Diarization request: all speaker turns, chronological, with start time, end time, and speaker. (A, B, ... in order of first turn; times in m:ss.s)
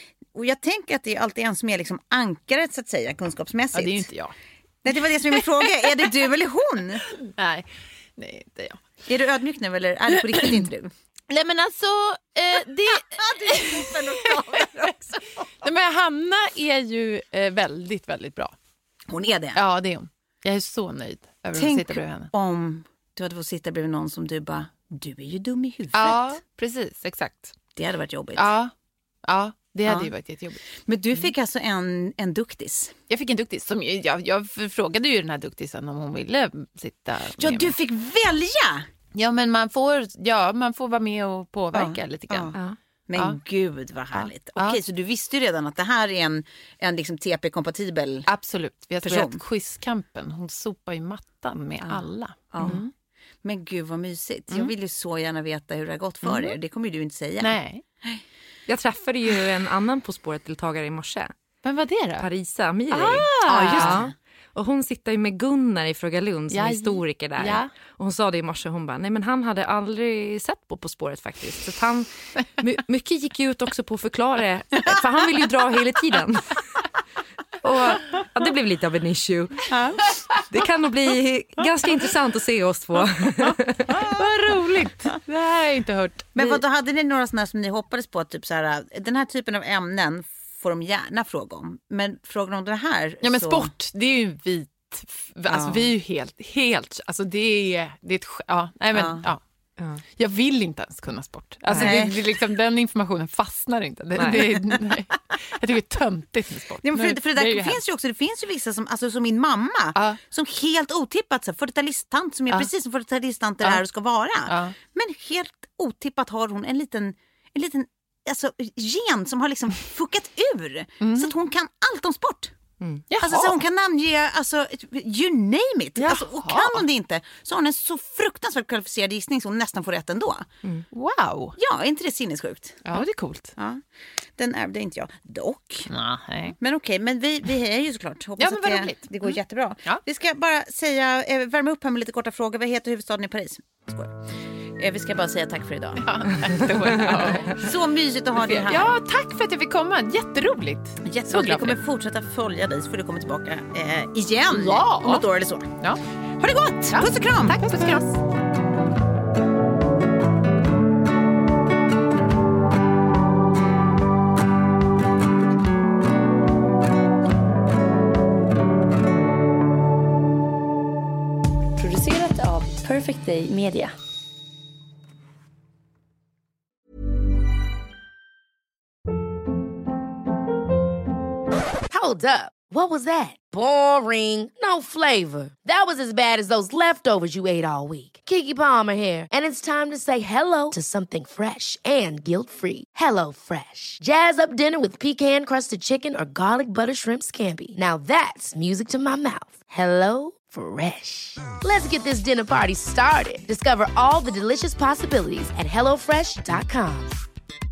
0:00.3-0:04.1 A
0:03.7-0:04.4 B
0:04.8-0:07.0 A
0:07.3-0:08.8 B
0:09.1-0:10.9 A
0:10.4-0:10.6 B
0:11.3-0:14.7 B
0:13.1-0:15.4 A
0:15.6-0:18.5 B
0:19.1-0:19.6 A
0:19.6-0:22.3 B
0:21.6-0:26.4 A
0:25.9-0:27.6 B
0:27.8-0:28.5 A
0:28.4-0:28.7 B
0:29.3-0:30.6 B
0:30.8-0:33.0 A
0:33.1-0:37.8 B
0:37.4-0:38.9 A
0:39.2-0:42.6 B
0:41.7-0:42.6 A
0:43.1-0:48.3 A
0:44.1-0:44.8 B
0:48.3-0:52.9 B
0:49.0-0:49.4 A
0:52.5-0:52.8 A
0:52.6-0:52.8 C
0:53.4-0:58.2 A
0:56.2-0:56.6 B
0:57.4-0:57.8 B
0:58.7-1:01.3 C
1:01.6-1:02.3 B
1:02.2-1:16.9 C
1:02.9-1:04.0 B
1:03.5-1:04.1 A
1:06.5-1:07.7 B
1:17.6-1:19.7 C
1:19.7-1:20.2 A
1:20.4-1:24.1 C
1:24.1-1:26.6 B
1:26.4-1:33.7 A
1:33.2-1:39.4 B
1:35.5-1:35.9 A
1:38.9-1:39.2 A
1:39.8-1:40.0 C
1:40.1-1:47.8 B
1:41.7-1:42.0 C
1:41.8-1:42.2 A
1:44.2-1:44.5 C
1:46.8-2:02.5 A
1:54.5-1:54.8 B
2:01.0-2:01.3 B
2:03.1-2:03.6 B
2:03.2-2:10.5 A
2:06.0-2:06.8 B
2:10.9-2:11.6 B
2:11.6-2:13.8 A
2:12.8-2:13.6 B
2:14.4-2:15.9 A
2:15.9-2:16.6 B
2:16.6-2:28.9 A
2:18.4-2:20.0 B
2:26.0-2:27.6 B
2:28.4-2:31.8 B
2:31.0-2:35.8 A
2:34.5-2:35.2 B
2:36.4-2:37.8 A
2:36.9-2:38.2 B
2:51.8-2:54.0 D
3:01.9-3:27.2 E